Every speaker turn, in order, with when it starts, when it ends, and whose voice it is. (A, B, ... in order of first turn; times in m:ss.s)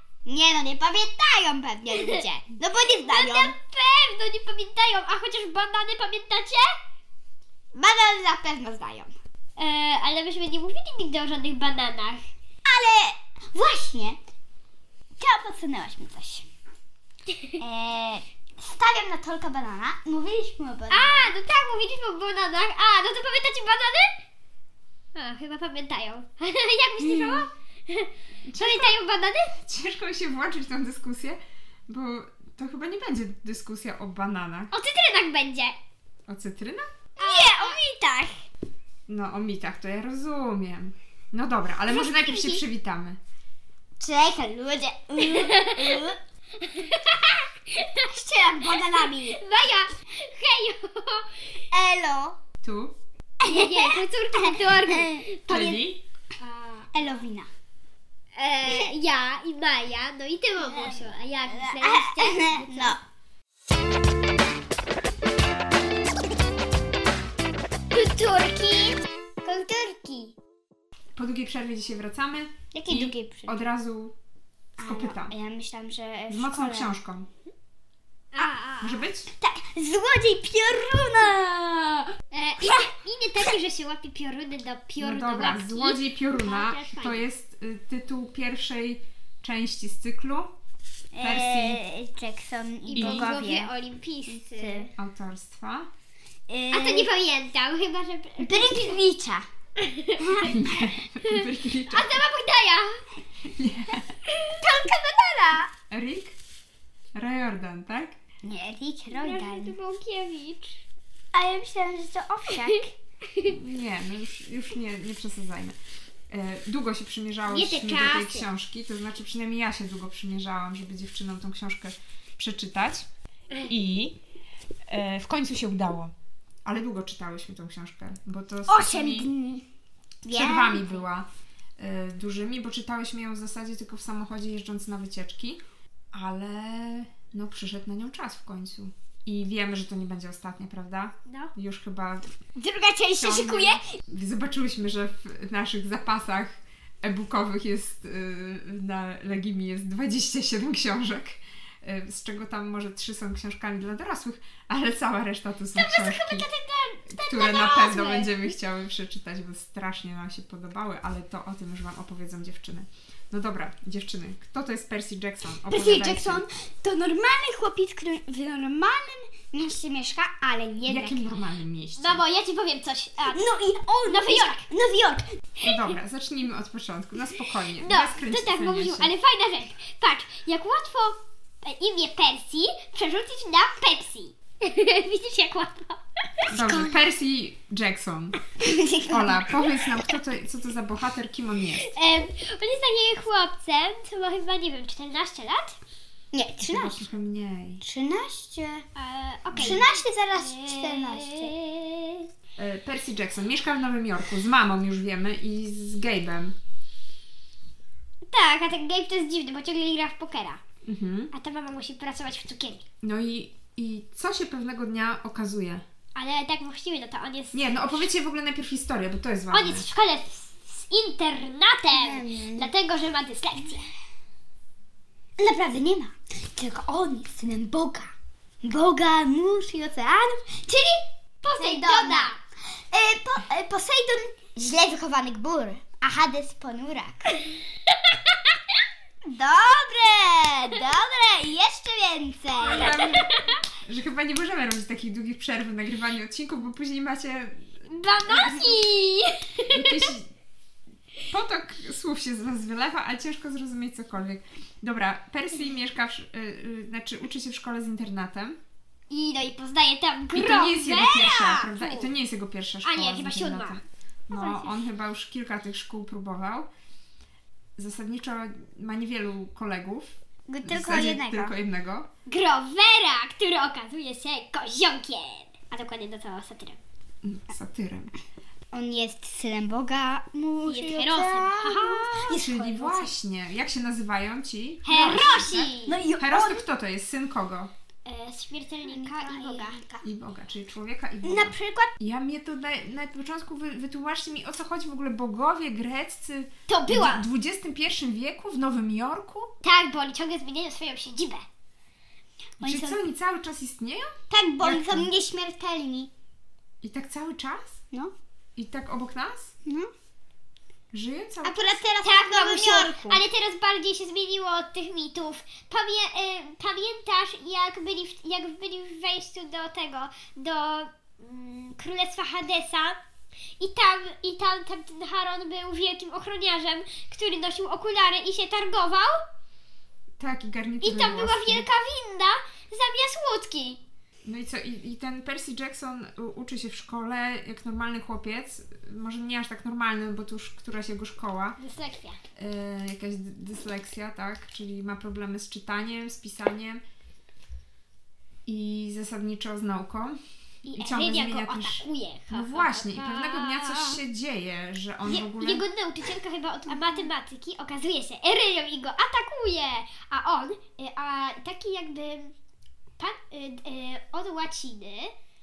0:00.2-0:03.5 A
0:02.0-0:02.2 B
0:03.0-0:06.8 B
0:07.7-0:09.1 A
0:09.6-0:12.2 B
0:12.6-0:14.2 A
0:15.2-0:16.4 A
0:17.6-0:21.3 A
0:20.9-0:24.1 B
0:25.1-0:29.5 B
0:27.0-0:27.4 A
0:28.5-0:29.0 C
0:29.6-0:34.7 C
0:34.7-0:35.8 B
0:36.3-0:36.8 C
0:37.2-0:38.3 A
0:37.2-0:37.8 B
0:39.1-0:43.2 C
0:41.9-0:42.6 B
0:44.0-0:46.2 A
0:45.2-0:46.0 B
0:46.6-0:48.1 B
0:48.1-0:49.4 A
0:48.6-0:51.6 B
0:51.7-0:52.4 A
0:52.6-0:53.0 C
0:53.4-0:55.8 A
0:53.4-0:55.7 B
0:55.5-0:56.0 C
0:56.4-0:57.3 B
0:56.9-0:57.5 A
0:58.3-1:03.0 B
1:00.6-1:03.0 A
1:07.9-1:10.3 B
1:09.5-1:10.1 A
1:11.2-1:14.1 C
1:12.7-1:13.6 A
1:14.8-1:16.9 A
1:14.8-1:15.3 C
1:16.3-1:17.3 C
1:18.3-1:19.0 B
1:18.8-1:19.3 C
1:19.4-1:22.1 A
1:22.3-1:27.2 B
1:22.6-1:22.9 A
1:25.0-1:30.5 C
1:31.1-1:33.7 A
1:31.2-1:31.8 C
1:32.8-1:34.9 B
1:33.0-1:33.3 C
1:34.3-1:34.9 A
1:34.9-1:35.9 C
1:36.5-1:37.1 A
1:36.7-1:39.0 B
1:38.4-1:39.4 A
1:39.8-1:40.5 B
1:40.4-1:42.2 C
1:41.2-1:43.0 B
1:43.4-1:44.1 C
1:44.6-1:45.7 A
1:45.9-1:46.4 C
1:47.1-1:48.1 C
1:48.4-1:49.8 A
1:49.1-1:50.8 B
1:51.3-1:52.9 A
1:53.4-1:55.8 C
1:56.3-2:03.0 C
1:57.4-1:58.5 B
2:03.6-2:04.2 C
2:04.9-2:06.1 C
2:06.6-2:09.3 C
2:08.7-2:09.6 A
2:10.2-2:11.0 A
2:10.3-2:11.3 C
2:11.8-2:15.6 C
2:16.1-2:22.2 C
2:21.2-2:21.5 B
2:22.6-2:23.8 A
2:23.2-2:26.5 C
2:27.0-2:36.5 C
2:35.7-2:38.5 B
2:37.1-2:46.4 C
2:45.6-2:51.2 A
2:50.8-2:52.2 C
2:52.0-2:53.4 B
2:53.3-2:55.5 A
2:54.0-2:54.7 B
2:55.6-2:59.1 C
2:57.8-3:06.5 B
3:06.5-3:08.4 C
3:08.6-3:09.4 A
3:09.0-3:11.9 C
3:11.8-3:15.8 B
3:16.3-3:17.0 A
3:16.6-3:17.8 C
3:17.8-3:18.8 A
3:19.0-3:22.2 B
3:19.5-3:21.5 A
3:22.6-3:26.5 C
3:28.3-3:30.6 B
3:30.8-3:31.3 C
3:31.3-3:32.8 B
3:33.0-3:35.8 C
3:36.1-3:38.1 B
3:37.5-3:39.9 C
3:39.5-3:43.8 B
3:41.9-3:42.7 A
3:45.4-3:52.4 A
3:51.4-3:52.4 B
3:52.9-3:57.4 A
3:59.3-4:03.0 A
4:02.6-4:08.8 C
4:02.6-4:03.6 B
4:07.8-4:10.1 B
4:09.7-4:10.3 C
4:11.3-4:18.6 C
4:19.1-4:22.1 B
4:20.3-4:26.7 C
4:22.8-4:24.7 B
4:27.8-4:32.1 C
4:30.5-4:31.5 A
4:32.2-4:36.8 B
4:37.2-4:38.1 C
4:38.7-4:43.1 A
4:40.6-4:42.2 B
4:42.1-4:47.7 C
4:44.8-4:46.0 B
4:45.0-4:45.3 A
4:45.8-4:46.6 A
4:48.0-4:49.8 B
4:48.9-4:50.1 A
4:50.0-4:59.5 C
4:51.2-4:51.9 A
4:56.7-4:57.2 B
4:59.6-5:01.4 B
5:02.6-5:03.0 A
5:02.6-5:04.1 C
5:04.3-5:06.1 A
5:04.6-5:05.1 C
5:06.8-5:07.8 C
5:08.6-5:09.5 C
5:10.9-5:11.6 C
5:11.4-5:13.2 A
5:12.0-5:23.0 B
5:23.6-5:29.2 B
5:30.2-5:31.6 C
5:30.8-5:33.8 B
5:34.2-5:41.6 C
5:41.6-5:42.2 B
5:42.4-5:46.8 C
5:48.4-5:50.2 C
5:50.6-5:54.0 B
5:50.7-5:55.6 C
5:55.0-6:02.3 B
6:03.0-6:05.1 B